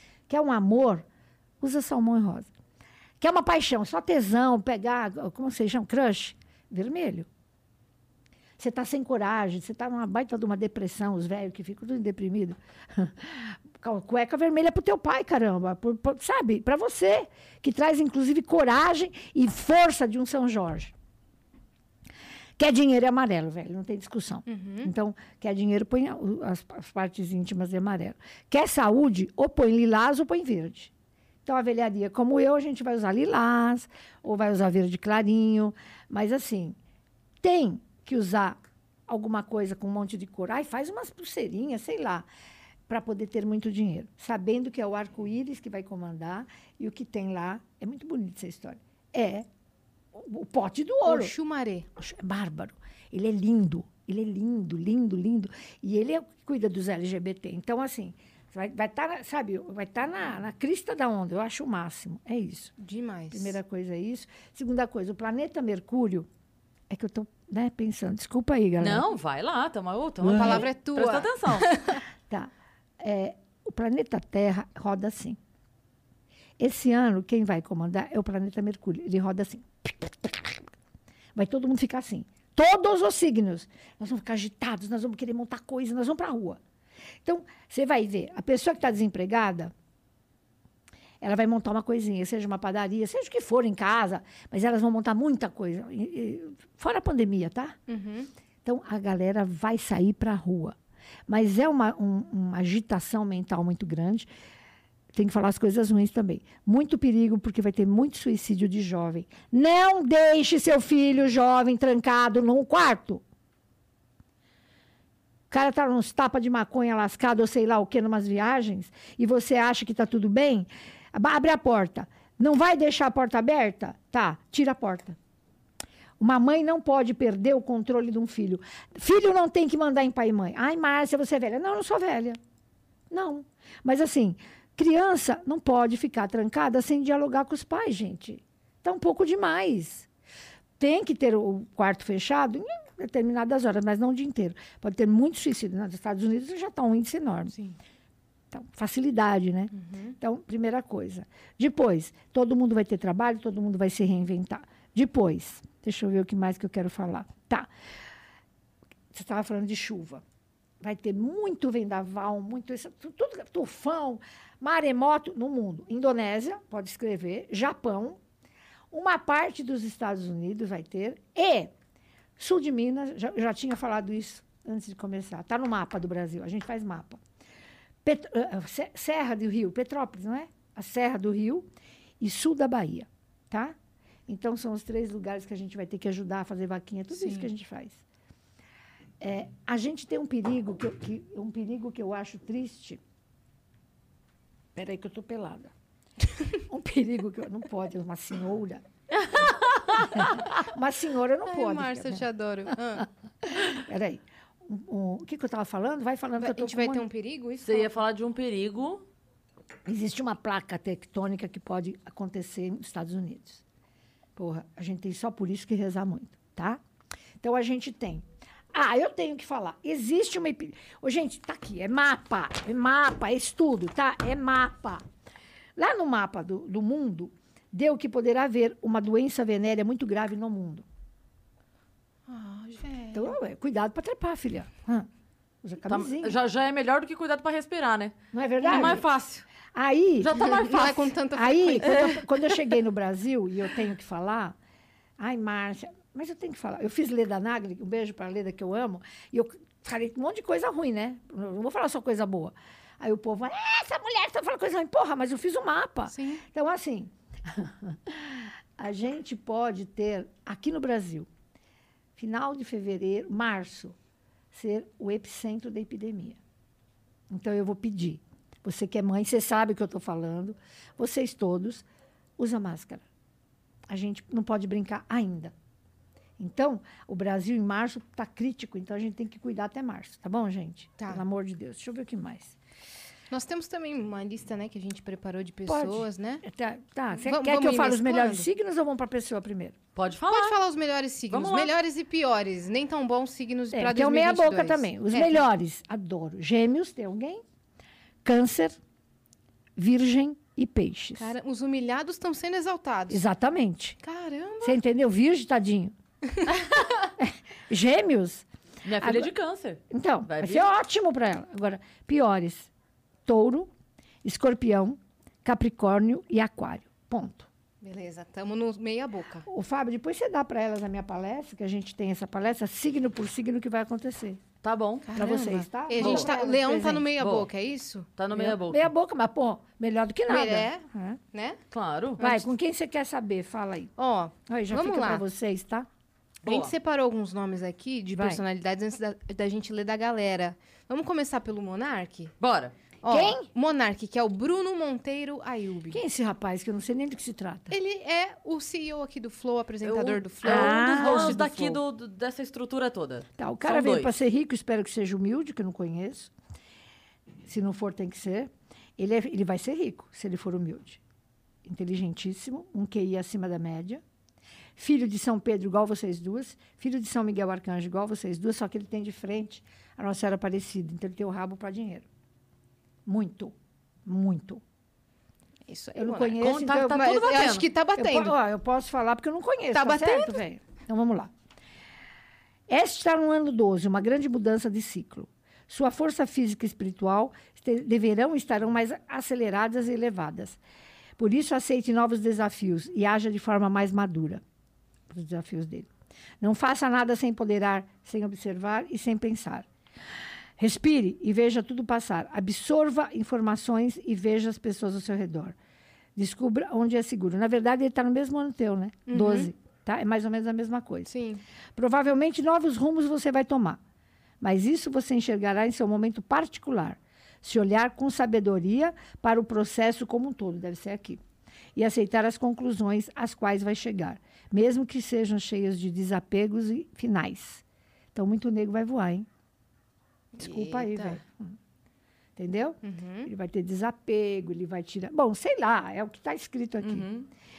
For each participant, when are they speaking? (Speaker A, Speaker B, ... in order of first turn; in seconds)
Speaker A: 0.3-1.1, 1.6-2.5, 3.2-7.3, 8.6-20.9, 22.6-30.9, 31.4-36.8, 37.4-42.3, 42.9-49.5, 50.1-51.3, 52.0-62.7, 63.3-66.3, 66.9-69.1, 72.3-75.4, 76.6-80.7, 81.3-86.6, 87.2-89.7, 91.2-97.8, 98.6-100.8, 101.3-104.3, 105.1-113.2, 115.5-125.2, 126.2-132.4, 133.1-140.1, 140.8-147.5, 148.5-157.7, 159.1-160.2, 160.8-168.2, 168.9-171.7, 172.4-177.2, 178.0-181.7, 182.2-183.8, 184.3-188.0, 189.2-193.0, 194.7-195.7, 196.6-198.8, 200.1-202.2, 203.4-207.0, 209.9-213.6, 214.4-216.8, 217.4-225.0, 225.8-230.8, 233.1-235.1, 235.6-236.4, 238.3-239.0, 239.7-240.7, 241.3-244.6, 245.2-261.3, 262.2-263.9, 264.5-266.4, 267.3-271.9, 272.4-273.0, 273.9-275.5, 276.4-282.6, 285.7-289.8, 293.7-297.4, 298.2-298.8, 299.8-301.3, 303.1-304.0, 304.6-305.9, 307.2-308.4, 309.0-309.3, 309.9-312.7, 313.2-313.7, 314.2-317.5, 319.5-324.4, 325.1-327.1, 328.3-331.2, 332.2-333.9, 334.5-335.9, 338.1-338.4, 343.1-343.5, 345.9-347.8, 350.4-351.5, 353.4-356.3, 357.4-361.0, 361.6-364.0, 364.8-372.1, 373.1-373.5, 374.1-374.6, 375.9-377.2, 377.9-381.3, 382.7-390.6, 391.2-394.4, 395.1-395.9, 396.4-399.7, 400.6-405.5, 406.1-411.1, 411.8-413.8, 414.4-421.2, 421.8-427.6, 428.1-429.3, 430.4-431.6, 432.4-437.1
Speaker B: 24.5-24.9, 51.0-51.9, 62.8-63.6, 70.3-72.0, 97.9-98.3, 149.8-150.1, 187.1-187.5, 201.4-203.1, 206.4-207.9, 232.3-233.3, 240.4-242.2, 256.1-256.4, 281.0-281.2, 283.3-286.4, 287.1-288.5, 290.3-295.4, 301.2-303.2, 304.0-304.8, 317.8-319.4, 325.1-328.1, 330.3-331.6, 332.2-332.4, 334.0-335.2, 336.4-342.3, 343.0-346.0, 347.7-351.8, 375.7-378.4, 379.7-380.4, 409.1-409.5, 411.1-411.4, 430.3-431.2, 432.8-433.3
Speaker C: 68.8-71.8, 199.4-200.0, 207.6-209.0, 235.9-239.4, 240.2-241.1, 241.8-242.1, 289.9-290.6, 291.3-291.7, 308.9-310.7, 324.6-325.1, 326.0-326.3, 327.2-327.5, 328.2-328.9, 331.7-332.2, 336.4-336.7, 342.4-342.7, 349.8-354.1, 376.4-377.7, 436.8-437.3